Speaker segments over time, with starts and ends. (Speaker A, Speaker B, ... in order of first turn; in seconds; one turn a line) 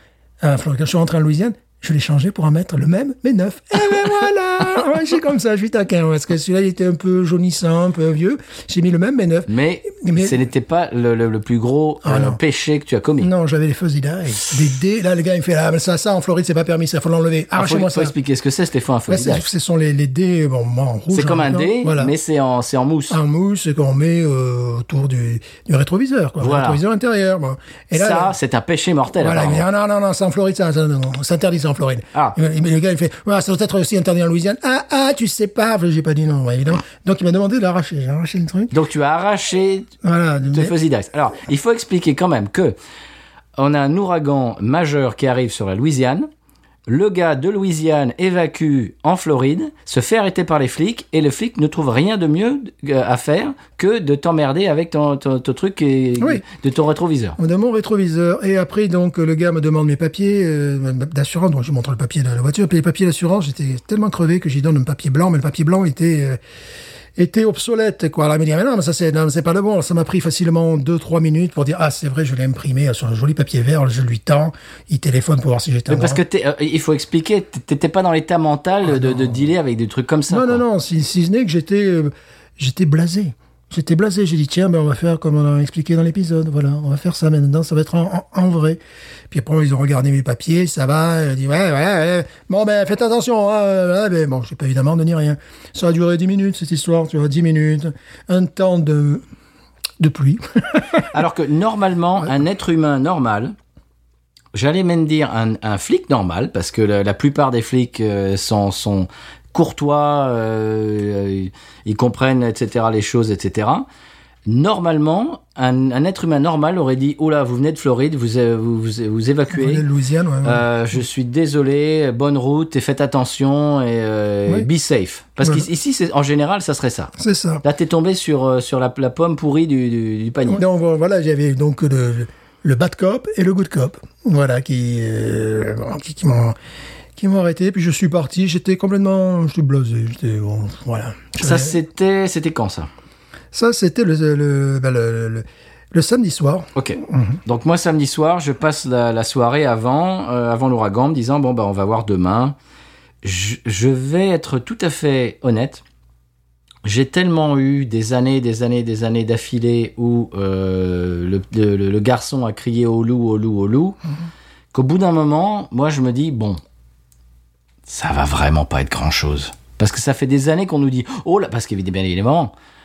Speaker A: 0.4-10.4
Speaker B: 9.5-13.3
Speaker A: 12.0-12.4
Speaker A: 13.2-18.1
Speaker B: 17.6-19.4
Speaker A: 19.1-22.1
Speaker B: 21.1-23.2
Speaker A: 23.1-28.3
Speaker B: 26.4-26.8
Speaker B: 27.9-29.6
Speaker A: 29.2-38.7
Speaker B: 38.7-39.9
Speaker A: 40.0-40.7
Speaker B: 40.5-42.8
Speaker B: 43.6-46.3
Speaker B: 46.9-57.4
Speaker A: 57.4-66.4
Speaker A: 67.2-76.2
Speaker B: 75.9-80.6
Speaker A: 78.8-79.5
Speaker A: 80.3-99.2
Speaker A: 100.0-101.1
Speaker B: 101.1-103.5
Speaker B: 104.5-113.8
Speaker B: 114.5-119.8
Speaker A: 119.5-120.6
Speaker B: 120.4-130.6
Speaker A: 125.4-125.7
Speaker A: 127.2-127.6
Speaker A: 130.5-136.6
Speaker A: 137.2-141.8
Speaker B: 141.4-142.9
Speaker A: 143.5-147.4
Speaker B: 146.7-152.6
Speaker B: 153.2-155.8
Speaker B: 156.8-164.0
Speaker B: 164.7-166.6
Speaker B: 167.8-172.5